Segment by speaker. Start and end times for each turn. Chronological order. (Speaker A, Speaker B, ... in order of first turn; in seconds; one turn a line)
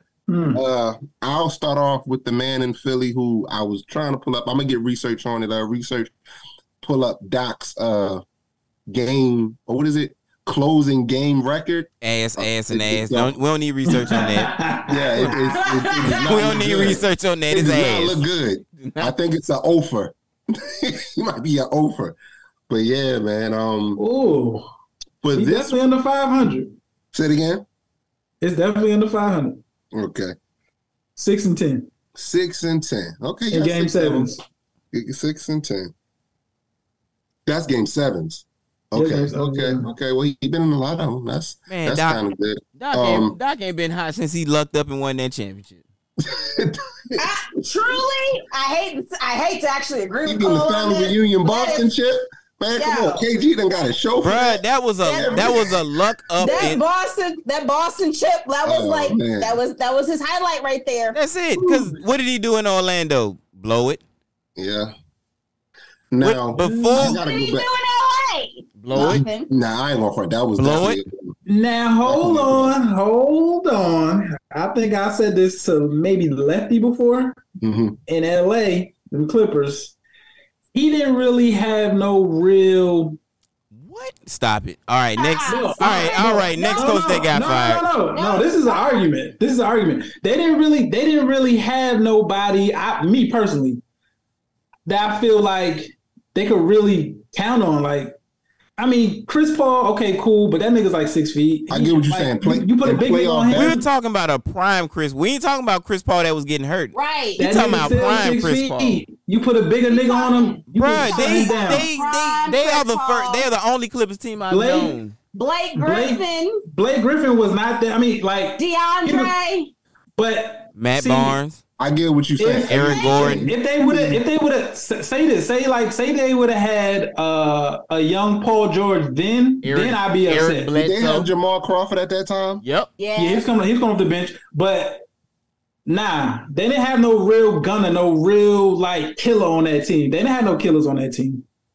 Speaker A: 0.3-0.6
Speaker B: 0.5-6.1
Speaker B: 6.8-8.2
Speaker B: 8.9-13.4
Speaker C: 12.0-14.5
Speaker A: 13.9-15.4
Speaker B: 14.9-22.2
Speaker D: 15.6-16.2
Speaker C: 16.1-18.2
Speaker C: 18.8-19.1
Speaker B: 22.7-24.0
Speaker A: 24.0-24.7
Speaker B: 25.2-25.8
Speaker A: 25.3-26.8
Speaker B: 27.1-27.6
Speaker A: 28.4-29.6
Speaker B: 29.9-30.3
Speaker A: 31.2-31.9
Speaker B: 32.1-34.4
Speaker A: 33.5-34.4
Speaker B: 34.9-35.9
Speaker B: 37.5-43.4
Speaker A: 38.9-39.9
Speaker C: 41.7-42.2
Speaker C: 42.8-45.8
Speaker B: 46.2-47.2
Speaker D: 47.2-51.9
Speaker B: 50.2-56.8
Speaker D: 52.8-53.3
Speaker C: 54.2-56.8
Speaker D: 55.1-55.6
Speaker D: 56.4-61.2
Speaker B: 58.6-59.6
Speaker C: 61.1-64.0
Speaker B: 61.6-61.9
Speaker B: 64.6-64.9
Speaker B: 66.1-67.7
Speaker C: 66.2-67.2
Speaker A: 66.6-67.0
Speaker D: 67.0-69.5
Speaker C: 68.8-69.3
Speaker B: 68.9-71.3
Speaker C: 70.6-71.0
Speaker A: 71.5-77.4
Speaker B: 72.0-72.8
Speaker B: 77.6-78.0
Speaker A: 78.1-80.0
Speaker A: 80.7-83.2
Speaker C: 83.7-87.9
Speaker D: 85.2-87.4
Speaker A: 85.4-93.8
Speaker D: 88.1-89.1
Speaker A: 94.9-98.2
Speaker A: 98.8-103.9
Speaker B: 101.7-103.8
Speaker C: 103.5-109.0
Speaker D: 106.9-107.5
Speaker A: 107.4-111.9
Speaker D: 109.9-113.5
Speaker C: 110.7-115.2
Speaker A: 114.5-115.0
Speaker D: 115.3-116.6
Speaker A: 115.8-119.3
Speaker D: 118.6-119.7
Speaker A: 120.2-121.4
Speaker C: 120.8-121.6
Speaker B: 121.8-124.2
Speaker A: 122.4-130.7
Speaker C: 122.6-123.5
Speaker D: 122.9-123.3
Speaker C: 129.6-131.3
Speaker B: 130.8-132.6
Speaker C: 132.6-132.9
Speaker D: 133.0-133.5
Speaker A: 133.2-135.1
Speaker A: 135.9-141.4